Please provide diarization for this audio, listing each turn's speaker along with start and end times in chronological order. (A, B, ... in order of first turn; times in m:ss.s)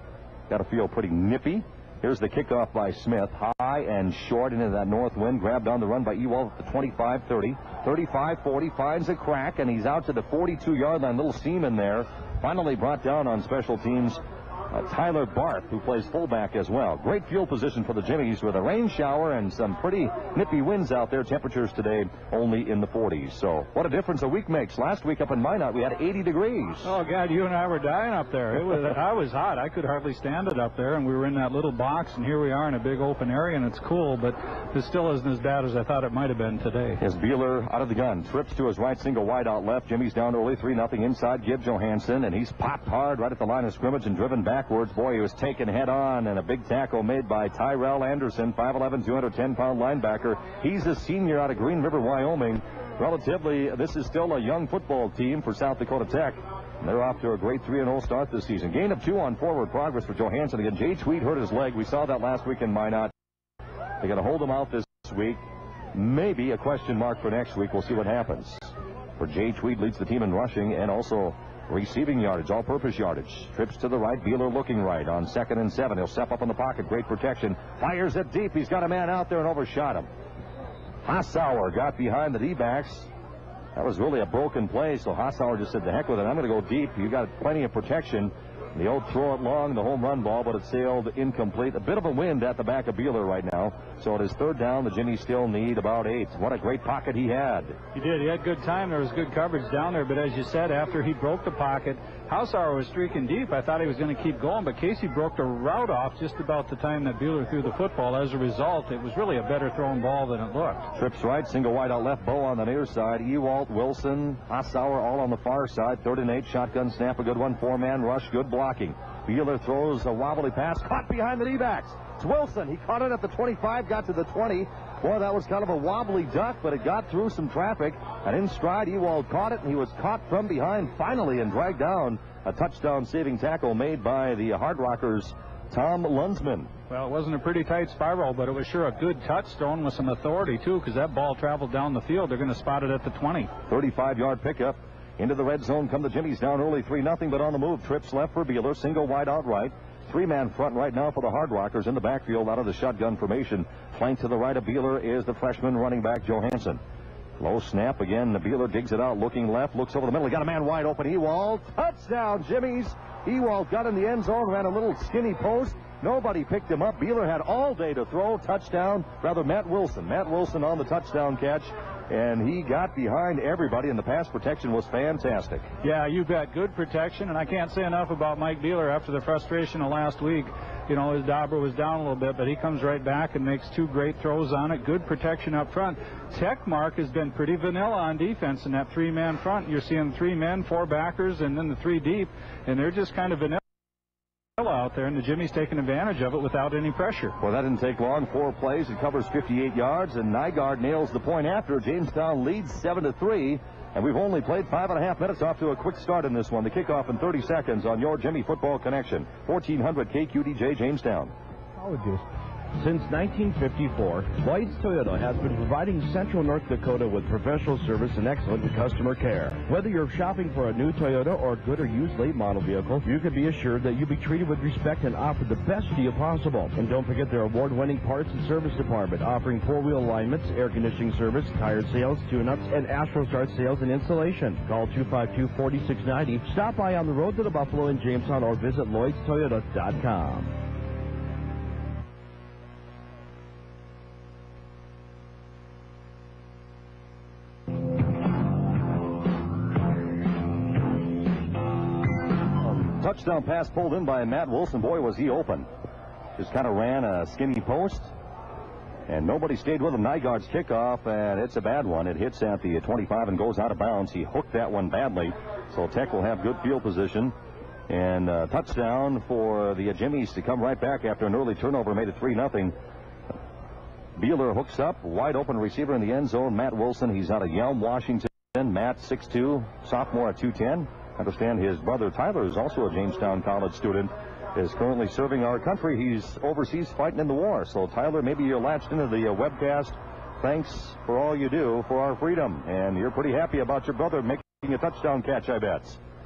0:00.5-0:26.9 A
0:26.8-0:37.0 B
0:37.0-1:03.1 A
1:04.0-1:05.4 A
1:05.9-1:20.1 A
1:21.0-1:23.1 A
1:23.8-1:37.8 A
1:37.9-1:50.8 B
1:50.9-2:16.7 A
2:16.9-2:23.5 B
2:23.7-2:36.8 A
2:37.4-2:55.7 A
2:55.8-3:13.6 B
3:14.6-3:17.4 B
3:17.4-3:31.3 A
3:31.8-3:32.2 C
3:32.8-4:00.5 C
4:12.6-4:15.7 A
4:16.4-4:18.1 A
4:19.1-4:27.3 A
4:27.9-4:32.7 A
4:34.2-4:56.0 A